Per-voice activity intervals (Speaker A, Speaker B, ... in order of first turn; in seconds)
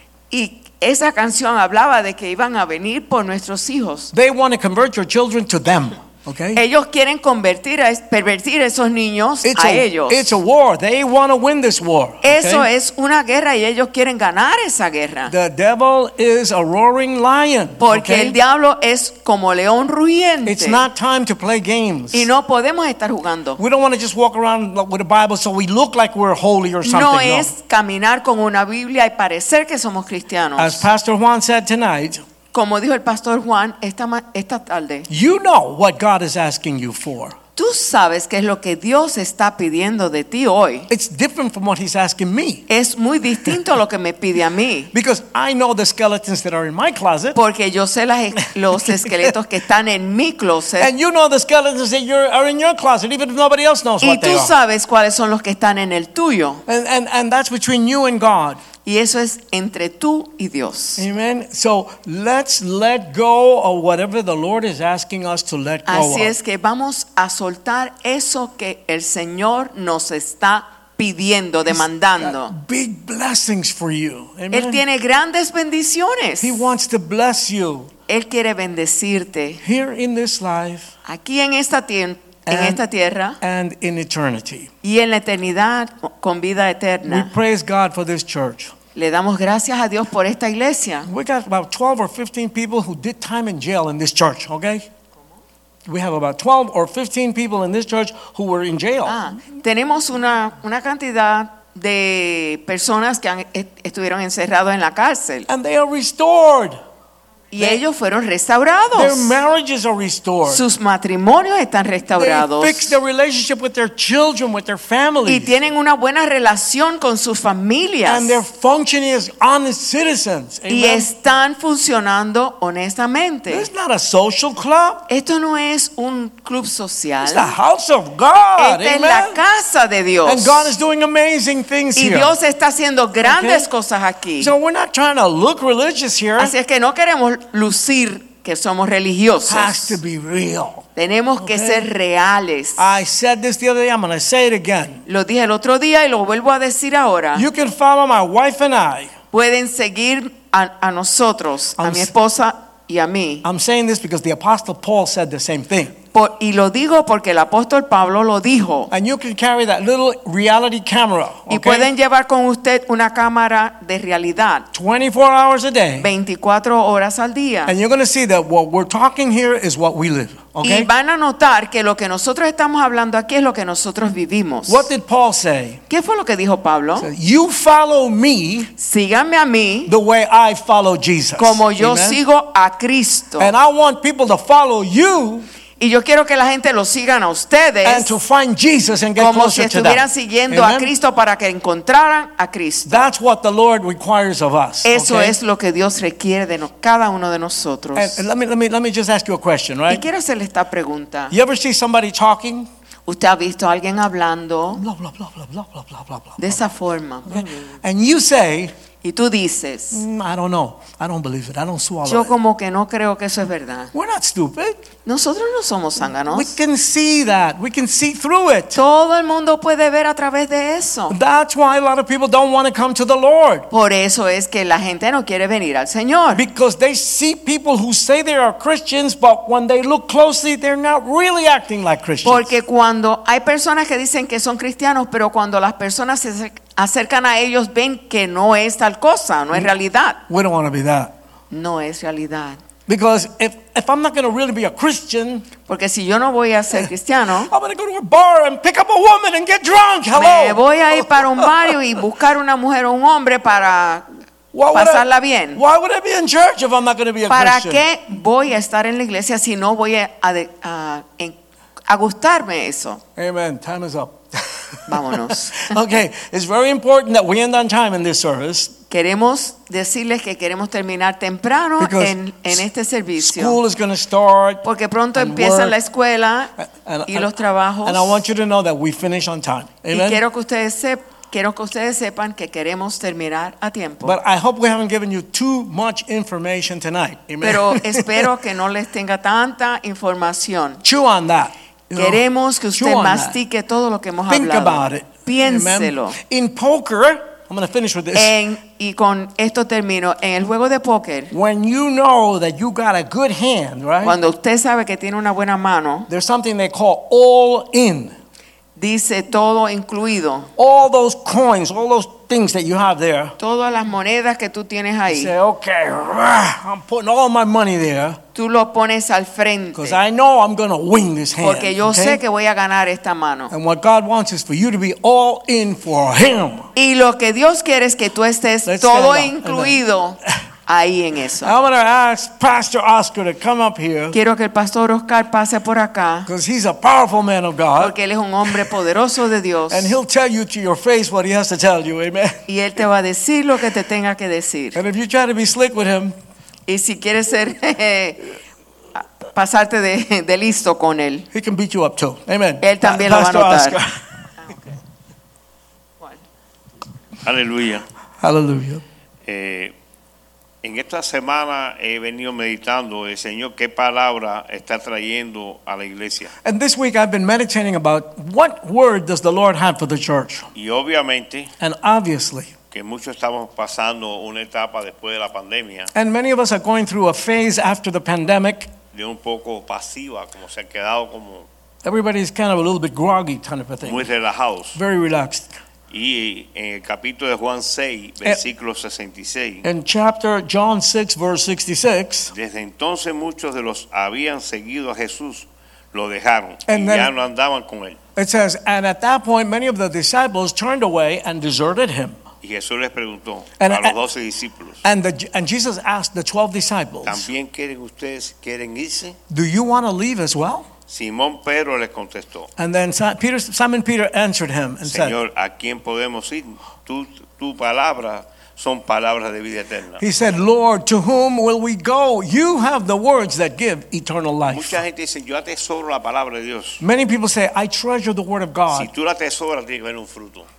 Speaker A: 0.3-4.1, 6.5-10.4, 12.2-15.3, 17.8-20.8, 22.1-23.6, 26.8-30.9, 32.5-35.1, 37.6-40.9, 42.7-44.9, 47.3-50.9, 54.0-56.6, 58.8-61.1, 65.9-72.6, 74.5-76.7, 78.1-79.6, 81.0-83.4, 84.8-87.3, 89.0-91.1, 99.0-105.5, 107.5-109.4, 110.5-113.0, 115.2-118.4, 120.7-123.7, 125.1-127.5, 128.6-130.7, 132.0-134.5, 136.4-140.0, 141.0-142.8, 145.1-147.5, 149.3-153.4, 156.1-158.9, 161.5-164.7, 166.0-167.8, 170.6-174.9, 175.9-177.1, 178.8-179.9, 181.4-183.5, 185.8-188.2, 189.2-193.1, 194.8-198.2, 199.9-201.3, 203.1-204.8, 206.4-207.8, 209.0-210.0, 212.1-213.9, 215.1-216.6, 218.7-221.2, 223.7-226.4, 232.2-240.2, 241.5-242.6, 245.7-247.5, 250.1-254.1, 254.7-255.6, 257.3-261.4, 261.9-263.0, 264.9-265.8, 268.9-273.6, 274.6-276.5, 277.1-278.2, 279.9-284.2, 287.4-290.8, 292.0-296.2, 298.1-301.3, 304.0-306.1, 308.8-310.5, 313.4-315.3, 318.4-320.0, 321.4-323.5, 326.8-331.6, 334.1-336.3, 337.8-340.0, 342.5-344.8, 346.7-348.3, 348.9-351.3, 352.6-353.8
Speaker B: 4.1-6.6, 9.4-12.7, 15.3-18.4, 20.5-22.3, 23.6-27.5, 30.6-32.2, 35.1-37.4, 40.9-42.6, 44.9-47.4, 48.9-49.3, 50.8-54.5, 56.7-58.6, 61.0-66.3, 71.7-74.8, 76.4-77.9, 79.6-80.9, 82.5-82.8, 83.4-84.7, 87.1-88.7, 91.0-94.9, 95.9-99.2, 105.5-106.8, 108.9-110.6, 112.2-115.6, 118.0-121.1, 123.5-125.0, 127.2-129.4, 130.2-132.3, 133.2-133.7, 134.4-136.6, 139.5-141.9, 142.8-145.0, 147.3-149.1, 151.8-152.1, 153.4-155.9, 158.9-161.9, 164.7-166.1, 167.7-170.9, 174.7-175.8, 177.0-178.7, 179.9-182.2, 183.4-185.5, 187.8-190.9, 192.9-195.4, 197.9-200.1, 201.3-202.7, 204.8-206.6, 207.3-208.7, 209.9-212.4, 213.9-214.8, 216.3-218.8, 221.1-223.7, 226.3-232.5, 240.3-241.1, 242.9-245.5, 247.5-251.8, 254.5-257.8, 263.2-268.7, 271.8-272.6, 273.2-275.8, 276.6-280.2, 284.0-288.3, 290.8-292.2, 292.8-293.4, 294.3-298.4, 301.3-304.2, 306.1-308.1, 310.6-313.4, 315.1-318.2, 319.8-322.2, 323.5-326.7, 328.6-329.8, 331.4-334.2, 336.3-338.7, 339.7-342.4, 344.7-346.1, 351.3-354.0, 358.2-358.8, 366.4-370.5, 371.6-372.5, 375.9-378.7, 381.8-384.1, 384.8-385.5, 389.6-392.3, 396.7-397.1, 398.2-402.2, 403.6-404.0, 404.8-407.3, 409.3-410.7, 412.6-415.2, 420.0-424.8, 426.8-428.9
Speaker C: 357.2-357.9, 359.2-359.7, 360.6-366.3, 370.6-371.5, 372.7-375.9, 378.9-381.5, 383.8-384.8, 385.9-389.7, 392.3-398.0, 402.4-404.8, 407.0-409.2, 410.9-412.5, 414.8-420.0, 424.5-426.8, 428.7-430.5